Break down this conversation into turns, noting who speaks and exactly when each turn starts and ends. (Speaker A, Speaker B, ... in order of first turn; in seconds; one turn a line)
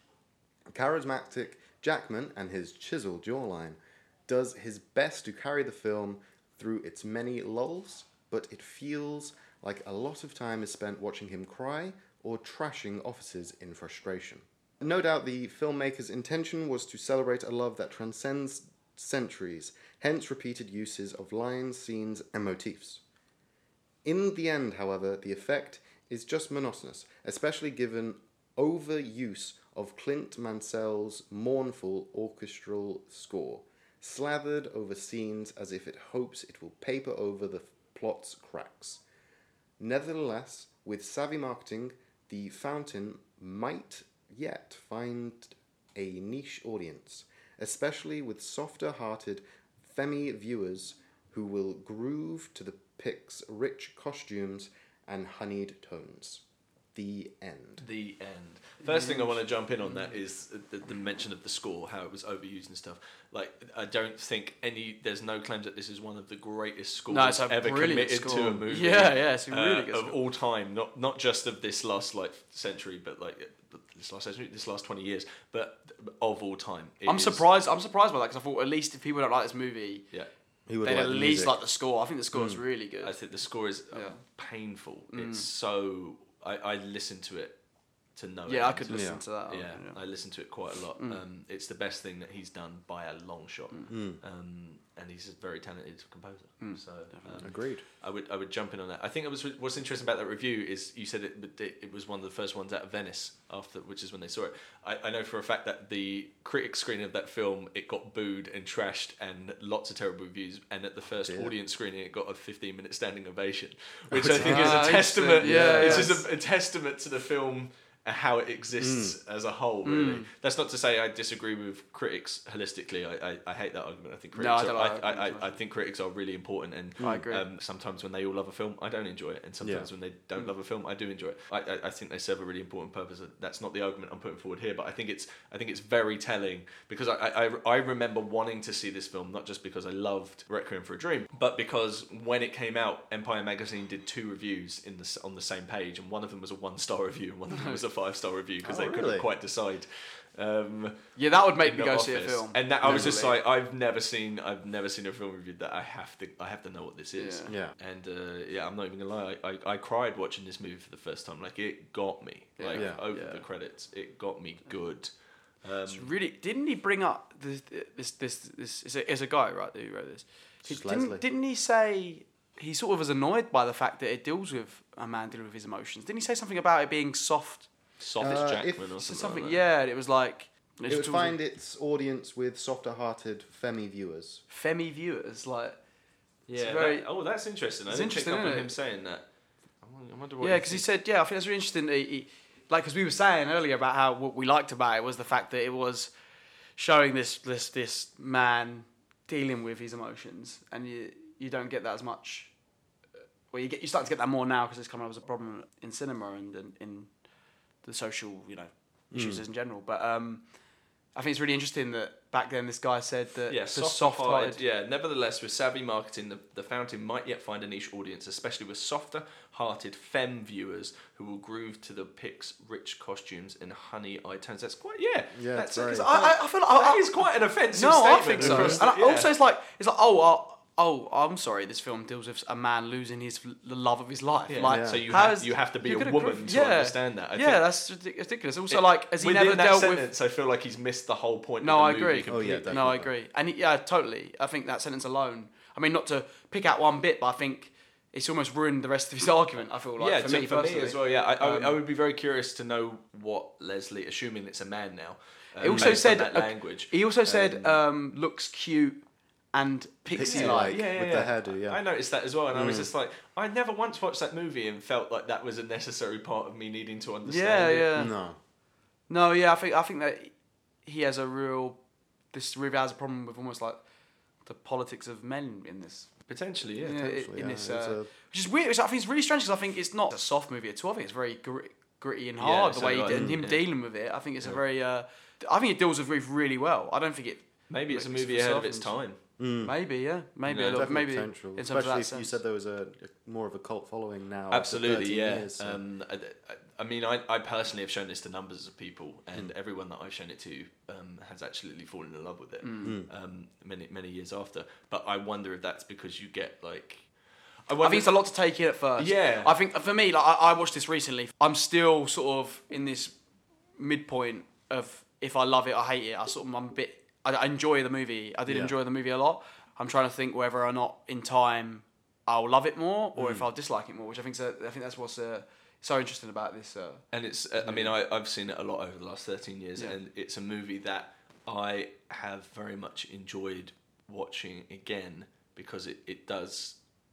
Speaker A: 0.7-23.0
Speaker A: 24.0-39.0
Speaker A: 39.8-56.4
Speaker A: 56.9-57.8
Speaker B: 57.8-77.4
Speaker C: 58.9-59.3
Speaker C: 67.1-70.2
Speaker C: 77.0-80.0
Speaker A: 80.7-81.6
Speaker C: 80.8-83.1
Speaker A: 82.3-82.6
Speaker B: 83.0-87.5
Speaker C: 83.9-84.2
Speaker C: 85.1-85.5
Speaker B: 88.2-151.0
Speaker C: 88.5-90.0
Speaker A: 88.9-89.2
Speaker A: 93.9-94.2
Speaker C: 96.6-97.4
Speaker A: 97.4-97.8
Speaker A: 111.2-111.5
Speaker A: 114.1-116.2
Speaker C: 114.3-116.2
Speaker A: 118.8-119.2
Speaker C: 119.8-120.3
Speaker C: 124.3-125.5
Speaker A: 127.0-127.2
Speaker C: 127.0-127.4
Speaker A: 129.6-129.9
Speaker C: 147.5-147.8
Speaker A: 148.6-149.3
Speaker C: 151.2-153.3
Speaker B: 151.6-165.1
Speaker A: 152.8-153.2
Speaker C: 157.2-157.5
Speaker A: 157.5-157.7
Speaker C: 162.6-163.4
Speaker A: 162.7-163.0
Speaker B: 165.6-166.1
Speaker C: 165.9-177.7
Speaker A: 170.6-171.2
Speaker B: 178.0-179.6
Speaker A: 178.2-178.9
Speaker C: 179.0-181.4
Speaker A: 180.9-184.4
Speaker C: 184.5-185.8
Speaker C: 186.5-187.1
Speaker B: 186.5-189.2
Speaker C: 187.9-188.7
Speaker B: 189.8-190.8
Speaker C: 190.4-196.1
Speaker C: 196.8-202.5
Speaker C: 203.5-207.1
Speaker C: 207.8-210.4
Speaker A: 209.1-209.4
Speaker C: 211.1-214.6
Speaker B: 213.5-229.3
Speaker A: 225.3-226.1
Speaker C: 225.7-227.1
Speaker C: 227.7-240.1
Speaker A: 228.4-228.8
Speaker B: 234.5-237.7
Speaker A: 234.6-235.1
Speaker B: 238.7-242.9
Speaker C: 241.6-251.8
Speaker A: 242.3-243.1
Speaker B: 250.0-257.7
Speaker C: 255.6-259.0
Speaker A: 255.6-256.0
Speaker C: 259.5-260.7
Speaker A: 260.1-261.8
Speaker B: 260.2-267.9
Speaker A: 262.5-262.9
Speaker C: 267.2-268.1
Speaker A: 267.9-268.4
Speaker C: 269.1-271.8
Speaker C: 272.3-273.8
Speaker C: 274.4-276.1
Speaker B: 276.3-277.0
Speaker C: 276.8-289.0
Speaker A: 276.9-278.1
Speaker B: 282.4-283.6
Speaker A: 283.1-283.4
Speaker B: 287.7-289.2
Speaker A: 289.4-289.7
Speaker C: 289.6-292.4
Speaker B: 290.4-290.9
Speaker A: 290.7-295.8
Speaker B: 294.5-307.1
Speaker C: 302.6-303.0
Speaker A: 302.8-303.1
Speaker B: 307.7-308.1
Speaker C: 307.8-313.1
Speaker B: 309.0-309.5
Speaker C: 313.8-327.0
Speaker A: 318.5-318.7
Speaker A: 323.1-323.4
Speaker B: 327.1-336.8